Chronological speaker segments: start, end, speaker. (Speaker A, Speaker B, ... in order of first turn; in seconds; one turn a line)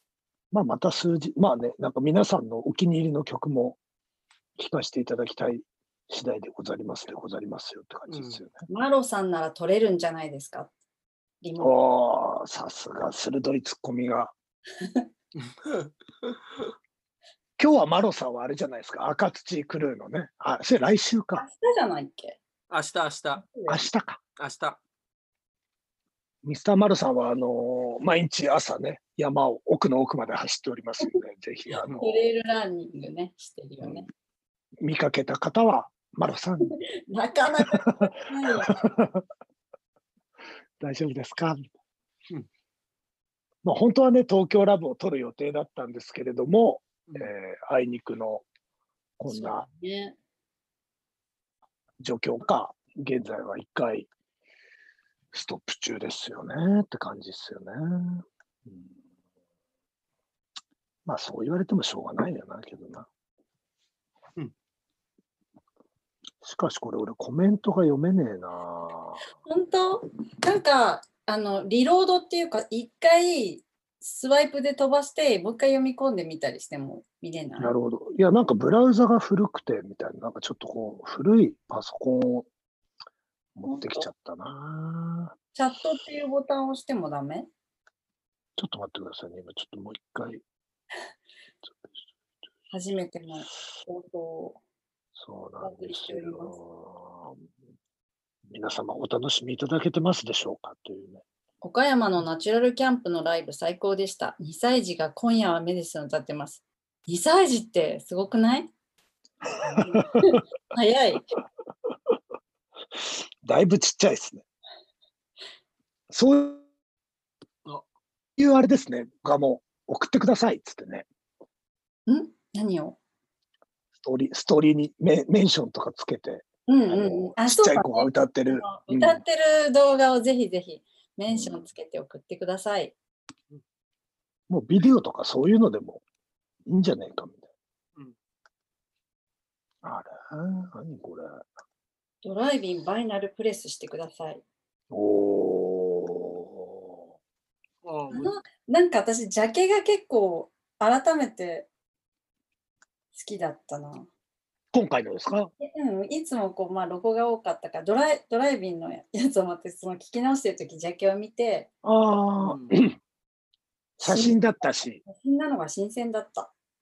Speaker A: 0.5-3.8
Speaker A: 4.6-8.6
Speaker B: 8.1-8.4
Speaker C: 8.7-10.7
Speaker C: 11.4-11.8
Speaker A: 11.6-14.3
Speaker B: 15.4-16.3
Speaker A: 17.6-21.4
Speaker C: 21.4-22.4
Speaker B: 22.7-23.4
Speaker C: 23.4-23.8
Speaker A: 23.7-24.2
Speaker B: 24.4-24.8
Speaker A: 26.4-32.2
Speaker B: 31.7-32.0
Speaker C: 32.0-34.1
Speaker A: 33.8-34.0
Speaker A: 34.8-36.7
Speaker C: 36.7-38.9
Speaker A: 37.6-39.2
Speaker A: 40.8-41.6
Speaker A: 43.6-48.4
Speaker A: 49.2-49.6
Speaker C: 49.3-50.1
Speaker A: 52.0-54.1
Speaker A: 55.3-58.9
Speaker A: 61.0-63.1
Speaker A: 66.4-69.2
Speaker C: 69.4-77.7
Speaker A: 77.6-82.5
Speaker A: 83.5-85.3
Speaker C: 83.7-84.0
Speaker C: 85.5-87.5
Speaker A: 88.6-90.4
Speaker C: 92.7-94.6
Speaker A: 95.2-97.4
Speaker C: 95.6-96.6
Speaker A: 98.5-101.2
Speaker C: 101.6-108.7
Speaker A: 109.7-110.4
Speaker C: 109.7-111.3
Speaker A: 113.4-114.5
Speaker A: 116.1-116.6
Speaker A: 118.4-121.0
Speaker C: 122.1-123.0
Speaker A: 123.9-129.2
Speaker C: 126.7-132.9
Speaker A: 131.3-131.7
Speaker A: 134.5-136.0
Speaker A: 136.7-137.5
Speaker A: 139.8-141.4
Speaker C: 142.2-144.4
Speaker A: 144.9-147.0
Speaker B: 147.8-148.3
Speaker C: 148.1-151.7
Speaker C: 153.1-154.1
Speaker A: 154.7-155.5
Speaker C: 155.6-161.7
Speaker A: 161.8-163.0
Speaker B: 162.4-162.8
Speaker A: 164.0-165.0
Speaker C: 164.0-164.4
Speaker C: 165.0-166.5